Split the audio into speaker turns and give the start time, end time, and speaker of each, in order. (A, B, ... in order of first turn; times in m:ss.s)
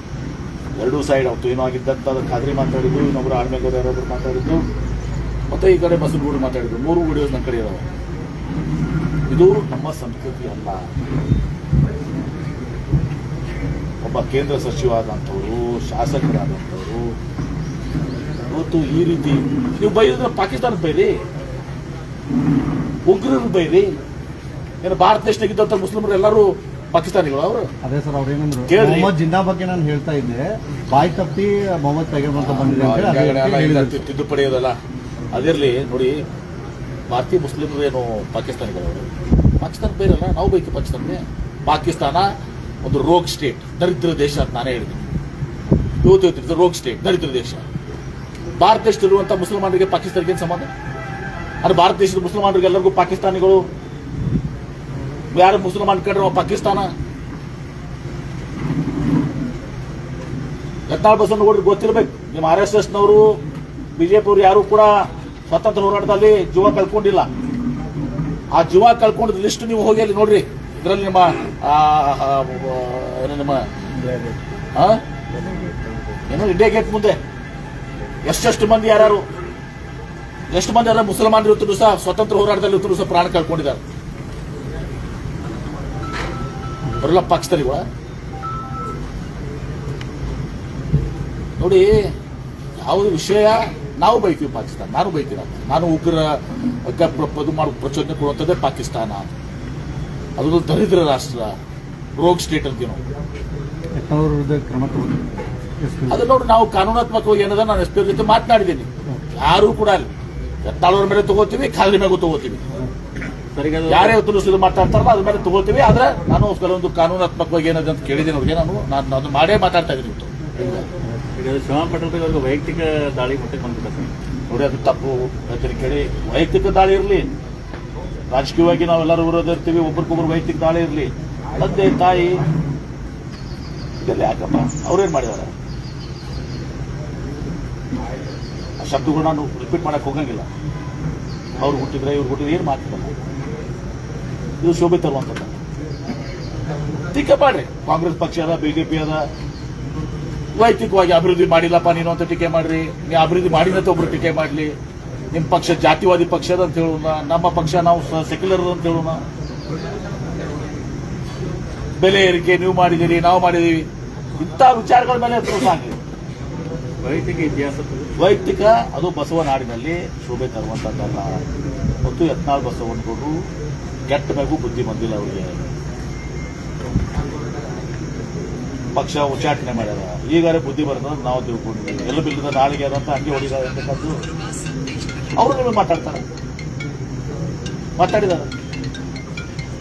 0:00.8-0:04.6 A
0:05.5-0:07.8 A
0:09.3-0:10.9 A
0:14.0-0:17.1 A
0:18.5-0:21.2 A
0:23.1-0:23.9 A
0:24.8-0:27.7 A
0:27.8-0:34.0 B
0:28.7-0:29.1 A
0:32.4-0:34.8 A
0:35.3-0:36.2 A
0:37.1-0:39.1 A
0:39.6-0:42.3 A
0:42.8-0:45.0 A
0:46.0-0:47.6 A
0:48.6-0:50.7 A
0:51.6-0:53.6 A
0:55.3-0:56.9 A
1:00.9-1:03.4 A
1:04.0-1:07.3 A
1:08.5-1:13.7 A
1:14.8-1:15.0 A
1:16.3-1:17.2 A
1:18.2-1:19.3 A
1:20.5-1:23.8 A
1:27.0-1:27.9 A
1:31.6-1:32.1 A
1:32.8-1:36.4 A
1:36.9-1:39.3 A
1:40.4-1:41.5 A
1:42.2-1:43.0 A
1:44.0-1:46.2 B
1:46.1-1:50.1 A
1:50.6-1:52.6 A
1:53.5-1:54.2 C
1:53.9-2:00.9 A
2:01.4-2:04.1 C
2:04.5-2:07.3 A
2:08.3-2:12.4 A
2:14.0-2:15.5 A
2:18.8-2:20.5 A
2:21.6-2:23.1 A
2:24.6-2:25.6 A
2:27.1-2:29.2 A
2:30.6-2:34.8 A
2:35.3-2:39.2 A
2:42.0-2:43.9 A
2:44.4-2:46.0 A
2:47.0-2:48.3 C
2:48.2-2:51.4 A
2:52.0-2:53.4 A
2:54.1-2:55.6 A
2:58.9-3:04.2 A
3:05.4-3:06.2 A
3:08.0-3:08.5 A